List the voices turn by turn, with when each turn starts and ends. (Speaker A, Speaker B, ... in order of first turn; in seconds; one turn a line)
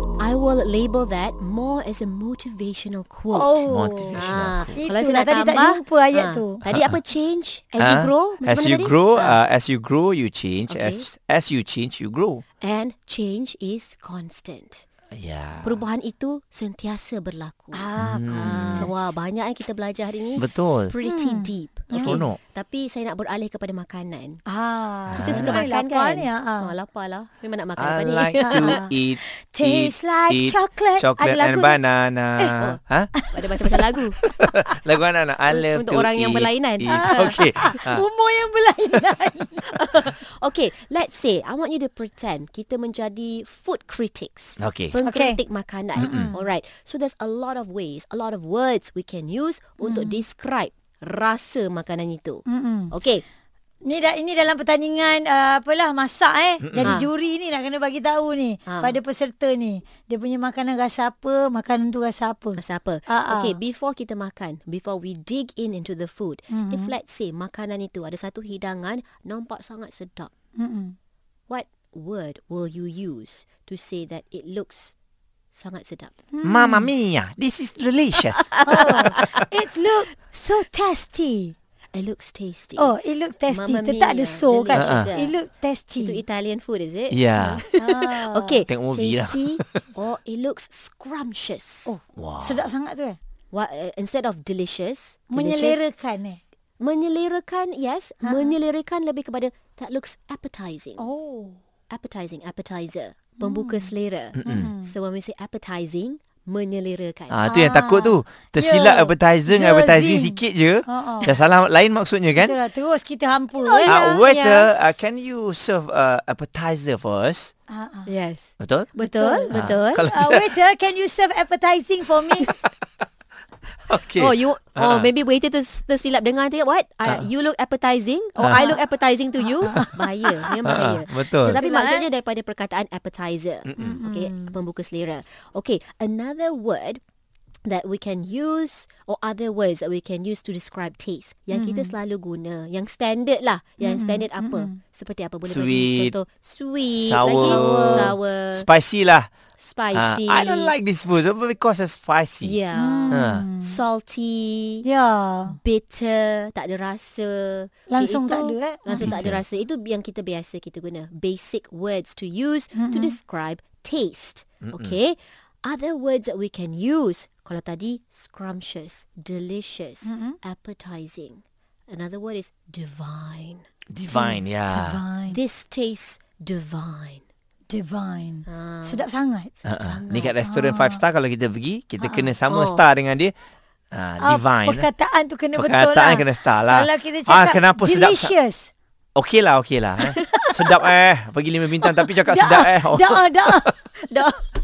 Speaker A: 0.2-9.4
Speaker B: 3.3-6.6
Speaker C: 3.7-4.8
Speaker C: 6.6-7.0
Speaker C: 7.8-12.4
Speaker A: 10.7-11.1
Speaker A: 12.6-14.8
Speaker C: 15.1-15.8
Speaker A: 15.6-24.4
Speaker B: 17.7-19.0
Speaker C: 18.0-18.9
Speaker C: 20.4-20.9
Speaker B: 21.0-22.2
Speaker C: 21.9-22.4
Speaker B: 24.5-26.7
Speaker C: 25.1-25.6
Speaker A: 25.2-28.8
Speaker C: 27.8-33.1
Speaker B: 28.4-31.8
Speaker B: 33.1-34.5
Speaker A: 33.3-34.2
Speaker C: 34.4-38.0
Speaker A: 35.5-37.6
Speaker B: 36.9-39.7
Speaker A: 39.6-53.2
Speaker C: 44.6-45.0
Speaker B: 45.0-45.4
Speaker C: 46.0-46.3
Speaker B: 46.0-46.5
Speaker B: 49.8-50.2
Speaker B: 52.5-52.9
Speaker B: 53.8-63.6
Speaker C: 56.6-57.0
Speaker A: 56.8-57.1
Speaker A: 58.7-59.0
Speaker A: 62.5-70.3
Speaker B: 66.5-66.9
Speaker B: 70.6-71.0
Speaker A: 71.5-75.0
Speaker A: 75.5-76.1
Speaker B: 76.3-76.9
Speaker C: 76.4-79.3
Speaker A: 78.2-79.4
Speaker B: 78.7-81.5
Speaker A: 81.9-83.0
Speaker B: 82.8-86.2
Speaker A: 83.5-85.4
Speaker C: 84.7-85.1
Speaker A: 86.0-92.0
Speaker C: 87.1-87.6
Speaker B: 87.7-88.7
Speaker C: 88.7-89.7
Speaker B: 91.9-93.2
Speaker C: 92.2-92.6
Speaker A: 93.5-95.9
Speaker B: 95.3-96.4
Speaker A: 96.8-101.1
Speaker B: 98.2-98.5
Speaker B: 101.0-101.6
Speaker A: 101.9-107.5
Speaker B: 103.4-103.9
Speaker C: 104.3-104.7
Speaker B: 104.5-105.0
Speaker C: 107.3-112.6
Speaker B: 107.5-111.3
Speaker B: 112.4-114.8
Speaker A: 113.6-114.0
Speaker C: 113.8-117.5
Speaker B: 117.7-118.1
Speaker A: 118.1-120.2
Speaker C: 118.6-118.9
Speaker B: 119.0-122.5
Speaker C: 119.5-120.5
Speaker C: 123.9-125.1
Speaker A: 123.9-137.0
Speaker C: 128.4-128.8
Speaker B: 129.6-130.4
Speaker C: 130.6-131.6
Speaker B: 131.6-132.1
Speaker C: 133.7-134.0
Speaker B: 133.8-134.6
Speaker A: 137.7-148.7
Speaker B: 141.5-141.9
Speaker B: 143.8-144.8
Speaker C: 145.4-146.2
Speaker C: 147.0-149.3
Speaker B: 147.2-148.1
Speaker A: 149.6-150.8
Speaker C: 149.9-152.6
Speaker A: 152.4-154.9
Speaker B: 152.7-153.8
Speaker C: 153.1-153.5
Speaker B: 154.8-155.6
Speaker A: 155.5-173.7
Speaker B: 157.9-159.3
Speaker C: 159.0-159.4
Speaker B: 162.7-163.2
Speaker C: 164.6-165.0
Speaker B: 170.1-170.4
Speaker C: 173.9-175.0
Speaker B: 174.1-175.4
Speaker A: 175.3-177.3
Speaker B: 177.7-179.5
Speaker A: 178.4-180.4
Speaker C: 179.7-183.3
Speaker B: 180.4-181.0
Speaker B: 182.0-182.3
Speaker A: 182.5-182.9
Speaker C: 183.9-184.9
Speaker B: 184.2-188.7
Speaker C: 185.5-188.3
Speaker C: 189.2-193.7
Speaker A: 190.0-190.8
Speaker B: 192.3-193.9
Speaker A: 194.0-194.5